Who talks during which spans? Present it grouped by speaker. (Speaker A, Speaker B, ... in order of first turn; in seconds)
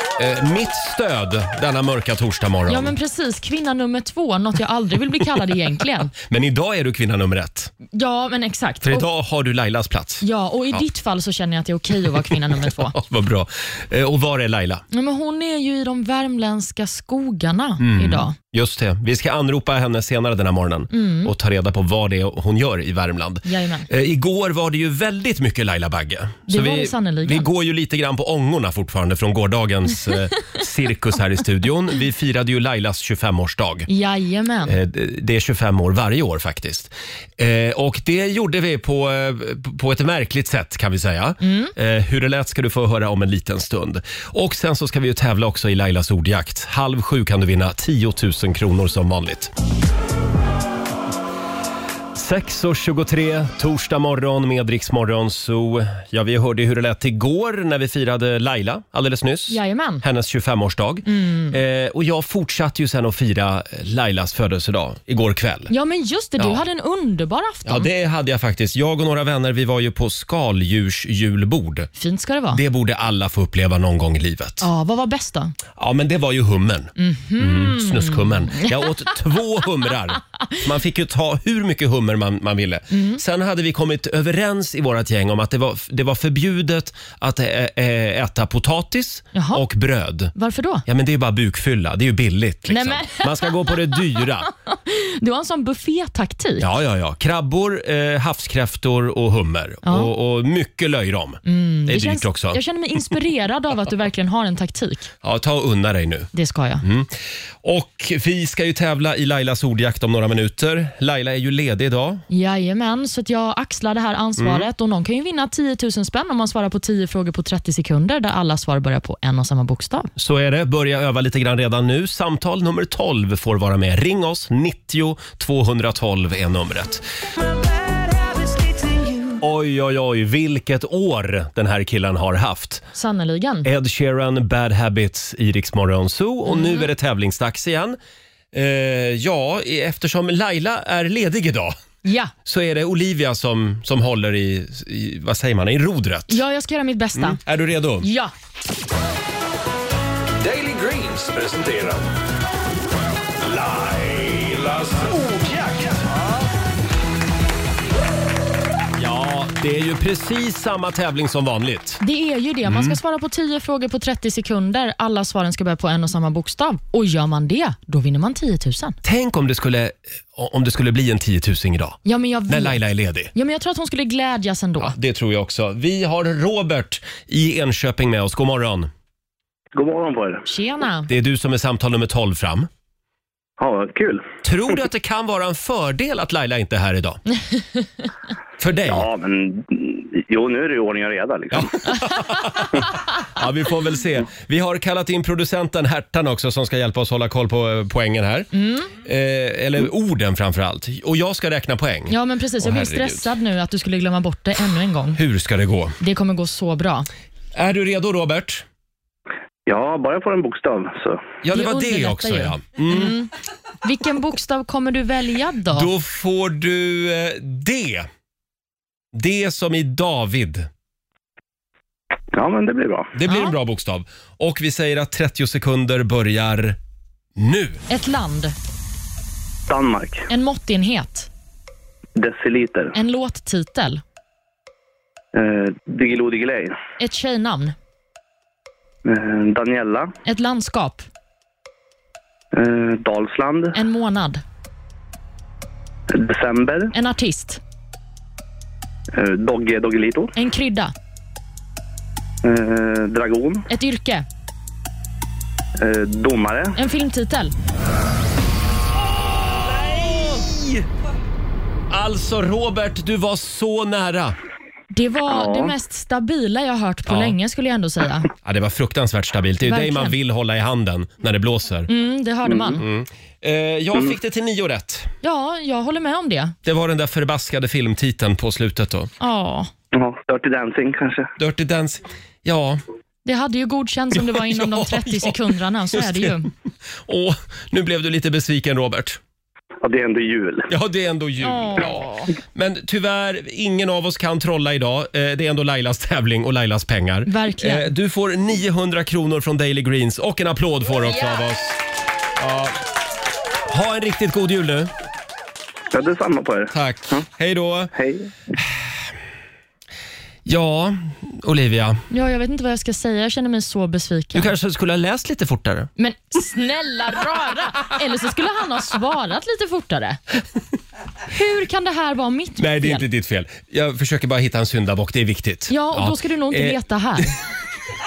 Speaker A: 0.2-2.9, 6.1-7.7, 8.8-10.8, 12.1-14.8, 17.8-33.9, 34.6-49.5, 52.1-65.7, 66.4-66.6, 67.7-71.9, 72.5-74.7, 75.8-90.3, 90.9-94.5, 96.6-102.6, 105.2-106.3, 106.8-112.2, 114.4-114.7, 120.2-127.0, 129.4-132.8, 133.6-138.0, 138.5-141.8, 142.4-146.4, 147.2-148.1, 158.9-162.0, 162.7-163.0, 169.0-173.3, 174.8-178.9, 181.1-182.7, 184.4-187.2, 188.6-189.1, 191.5-192.8, 193.3-203.3, 205.2-206.0, 207.6-208.7, 211.4-213.2, 215.7-218.1, 219.1-220.7, 223.2-226.8, 227.4-227.8, 259.0-260.9, 261.9-264.4, 267.1-267.4, 268.4-271.9, 272.8-275.1, 276.6-279.1, 281.4-282.8, 284.1-285.4, 285.9-286.5, 287.0-289.2, 290.7-301.8, 302.4-302.8, 303.7-304.9, 306.7-307.9, 310.4-312.0, 314.3-315.9, 322.6-327.2
Speaker B: 2.7-6.1, 7.9-9.1, 10.2-13.0, 14.9-18.4, 20.9-21.3, 23.4-23.9, 26.5-27.5, 33.9-34.8, 41.4-41.7, 59.5-60.0, 61.0-61.6, 65.7-67.9, 72.0-72.6, 74.6-75.5, 77.0-79.2, 82.9-83.2, 89.3-89.6, 90.3-90.8, 92.7-96.7, 99.8-100.1, 101.5-105.1, 106.3-106.8, 112.3-120.1, 132.9-133.7, 136.5-136.9, 142.1-142.3, 146.3-147.4, 148.0-148.3, 162.0-169.0, 172.1-172.8, 173.3-174.9, 180.4-181.1, 198.5-198.9, 202.1-205.2, 206.0-207.1, 211.5-213.3, 213.8-215.9, 223.2-223.6, 227.9-228.6, 230.3-231.3, 232.9-234.0, 237.0-237.8, 240.2-241.1, 243.7-244.4, 246.9-247.6, 250.4-250.9, 253.7-254.3, 256.8-257.5, 264.9-268.3, 269.6-270.2, 271.9-272.8, 275.2-276.6, 279.2-279.7, 283.2-286.5, 291.4-292.3, 297.3-297.9, 312.1-314.5, 316.0-320.2, 321.3-323.0, 325.7-327.4
Speaker C: 150.4-152.1, 153.4-156.3
Speaker D: 179.8-180.4, 183.6-184.3, 188.9-191.7, 209.7-211.2, 222.3-223.1, 229.7-230.2, 232.2-232.9, 235.3-236.8, 239.1-240.1, 242.5-243.8, 246.1-246.9, 249.1-250.3, 252.4-253.7, 255.8-256.7, 265.3-265.7, 279.9-281.3, 289.8-290.7, 305.9-307.2, 307.9-308.3